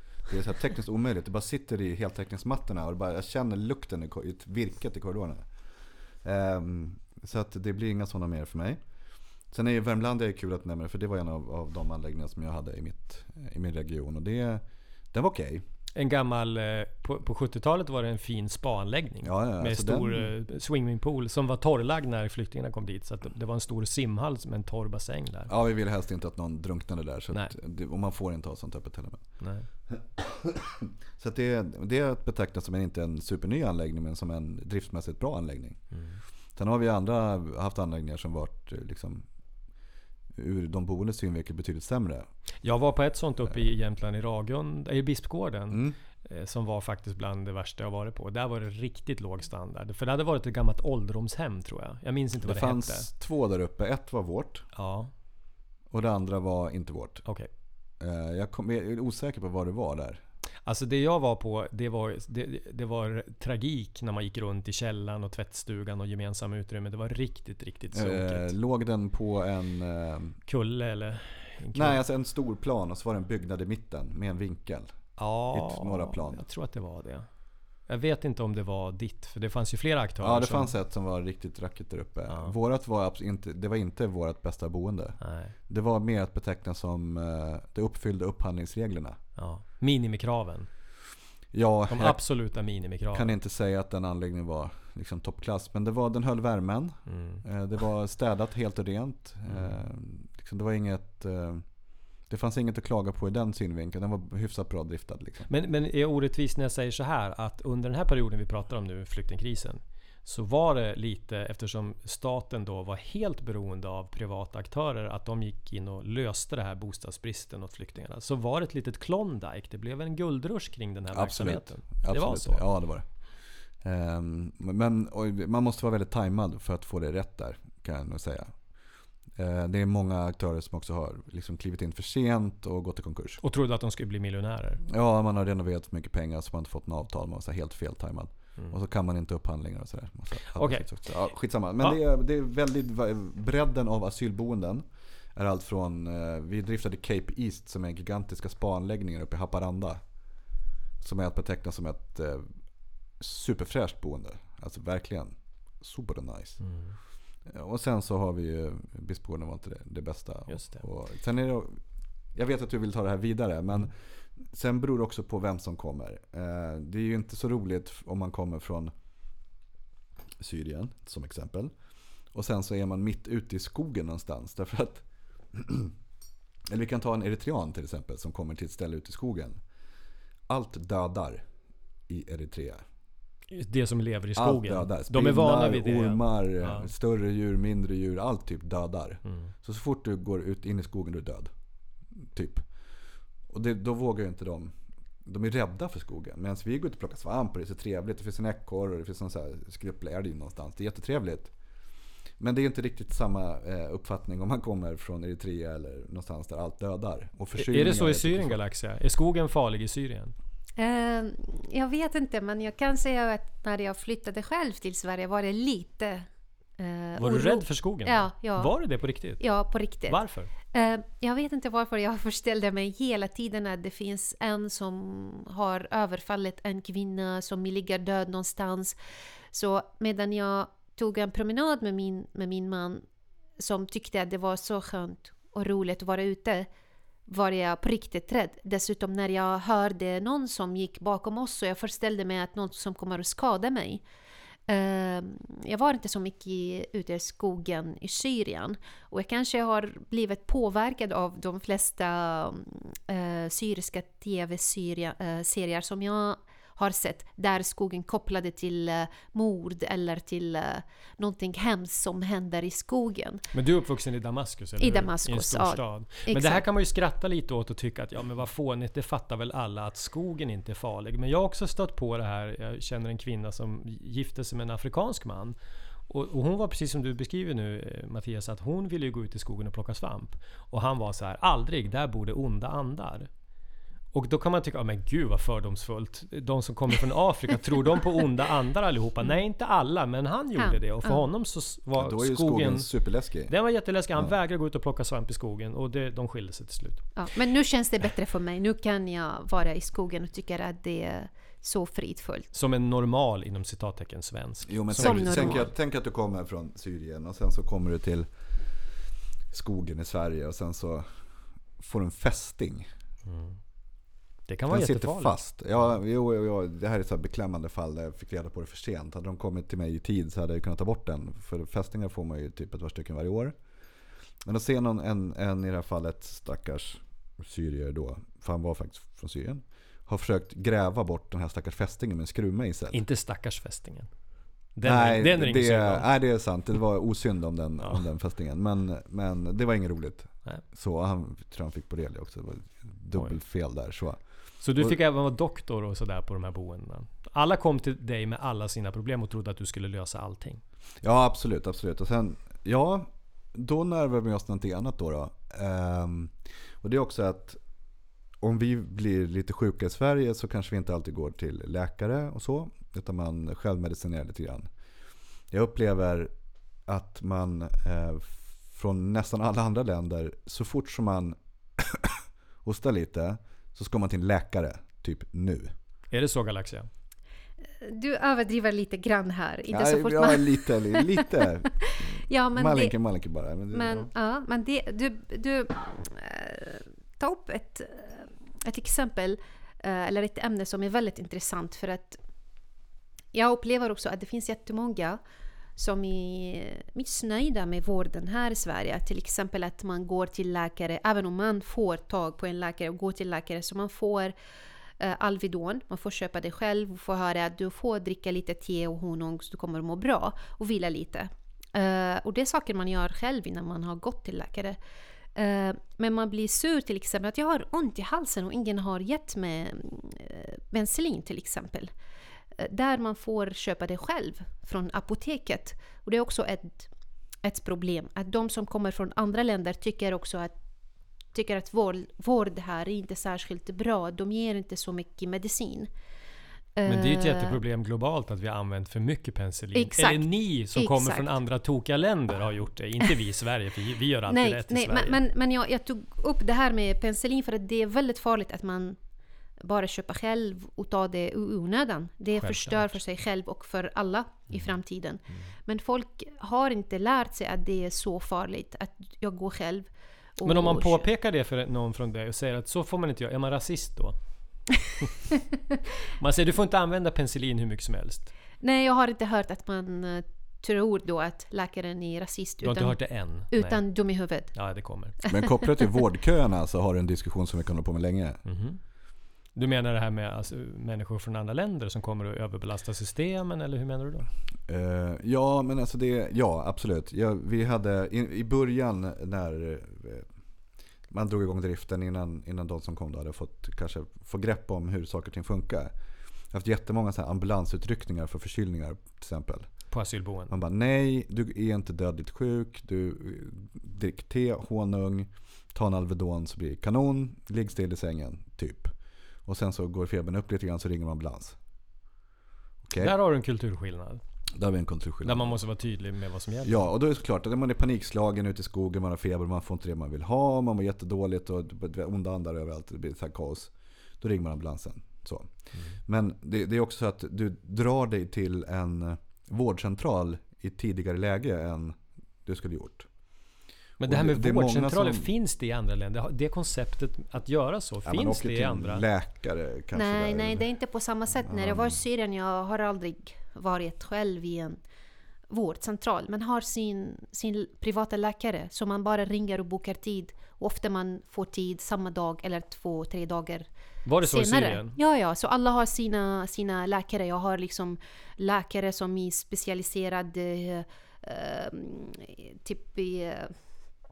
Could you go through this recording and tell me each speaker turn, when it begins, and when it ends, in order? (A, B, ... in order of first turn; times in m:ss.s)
0:00.3-0:05.5 A
0:06.2-0:08.8 A
0:09.5-0:15.6 A
0:15.9-0:25.5 B
0:19.2-0:20.3 A
0:25.5-0:29.2 A
0:29.4-0:29.6 B
0:29.9-0:35.8 A
0:35.9-0:36.2 B
0:36.6-0:39.3 A
0:40.4-0:42.3 A
0:42.6-0:53.1 B
0:45.7-0:46.0 A
0:52.4-0:54.6 A
0:54.8-0:55.1 B
0:55.9-0:57.2 A
0:58.0-1:00.2 A
1:00.6-1:08.5 B
1:07.9-1:10.4 A
1:10.5-1:12.0 B
1:11.7-1:14.9 A
1:15.2-1:17.3 B
1:15.5-1:16.4 A
1:17.9-1:20.7 B
1:20.2-1:25.2 A
1:22.3-1:22.5 B
1:25.2-1:25.5 B
1:25.7-1:29.2 A
1:29.4-1:30.7 B
1:31.5-1:32.2 A
1:31.9-1:33.3 B
1:33.1-1:41.6 A
1:37.1-1:37.4 B
1:39.5-1:39.8 B
1:42.3-1:45.5 A
1:45.5-2:02.6 B
2:01.1-2:03.0 A
2:03.8-2:08.6 A
2:09.4-2:13.4 A
2:13.4-2:14.8 B
2:14.8-2:24.8 A
2:20.5-2:21.0 B
2:25.3-2:30.0 A
2:31.0-2:32.5 A
2:33.2-2:36.6 A
2:36.6-2:37.0 B
2:37.4-2:41.8 A
2:40.5-2:40.8 B
2:42.3-2:48.9 A
2:50.4-2:51.7 A
2:52.3-2:55.9 A
2:56.7-2:59.6 A
3:00.5-3:01.4 A
3:02.1-3:02.8 A
3:03.5-3:06.9 B
3:04.4-3:11.5 A
3:09.2-3:09.5 B
3:12.3-3:12.6 A
3:13.5-3:21.5 A
3:22.4-3:28.6 A
3:27.6-3:30.3 B
3:30.8-3:38.7 C
3:37.2-3:39.5 B
3:39.4-3:40.2 C
3:40.0-3:40.5 B
3:40.7-3:49.0 C
3:49.5-3:53.0 C
3:53.6-3:56.7 C
3:57.3-4:04.0 C
4:04.7-4:23.4 C
4:23.5-4:35.6 B
4:24.8-4:26.6 C
4:36.1-4:43.3 B
4:44.1-4:52.9 B
4:50.6-4:51.2 C
4:52.0-4:53.5 A
4:53.5-4:57.2 B
4:57.2-5:02.5 C
5:02.5-5:05.6 B
5:04.7-5:08.3 A
5:05.0-5:05.7 C
5:09.5-5:11.1 A
5:11.8-5:12.9 A
5:13.2-5:13.6 B
5:14.5-5:15.6 B
5:14.7-5:23.6 A
5:24.4-5:33.0 A
5:32.9-5:34.1 B
5:34.7-5:36.1 B
5:34.8-5:44.2 A
5:44.6-5:50.6 B
5:51.0-5:57.6 A
5:58.4-6:04.7 A
6:05.5-6:06.3 A
6:06.9-6:15.7 A
6:16.1-6:16.9 B
6:17.8-6:21.2 C
6:19.7-6:24.1 A
6:21.8-6:23.0 C
6:23.7-6:32.2 C
6:33.3-6:35.2 C
6:35.8-6:44.3 C
6:45.0-6:54.8 C
6:55.4-7:01.9 C
7:02.6-7:06.9 C
7:07.4-7:10.6 C
7:11.3-7:15.9 C
7:16.8-7:17.6 C
7:16.8-7:25.2 B
7:19.7-7:21.3 C
7:24.3-7:29.0 C
7:29.6-7:41.0 C
7:32.4-7:32.9 B
7:40.4-7:44.7 B
7:46.2-7:48.3 B
7:48.6-7:54.5 C
7:52.6-7:53.8 B
7:54.5-7:55.2 B
7:55.3-7:58.4 A
7:58.4-7:58.8 B
7:59.5-8:04.3 B
8:04.7-8:10.2 A
8:11.1-8:15.9 A
8:16.5-8:19.7 A
8:19.9-8:20.5 B
8:20.5-8:28.9 A
8:29.4-8:31.6 A
8:32.8-8:33.1 A
8:33.0-8:34.2 B
8:34.5-8:35.5 A
8:35.2-8:36.9 B
8:36.6-8:45.5 A
8:46.0-8:53.1 A
8:54.0-8:59.0 B
8:54.0-8:55.3 A
8:58.0-9:00.7 A
8:59.9-9:04.8 C
9:01.4-9:02.0 A
9:05.5-9:13.7 C
9:14.0-9:15.0 B
9:14.2-9:23.6 C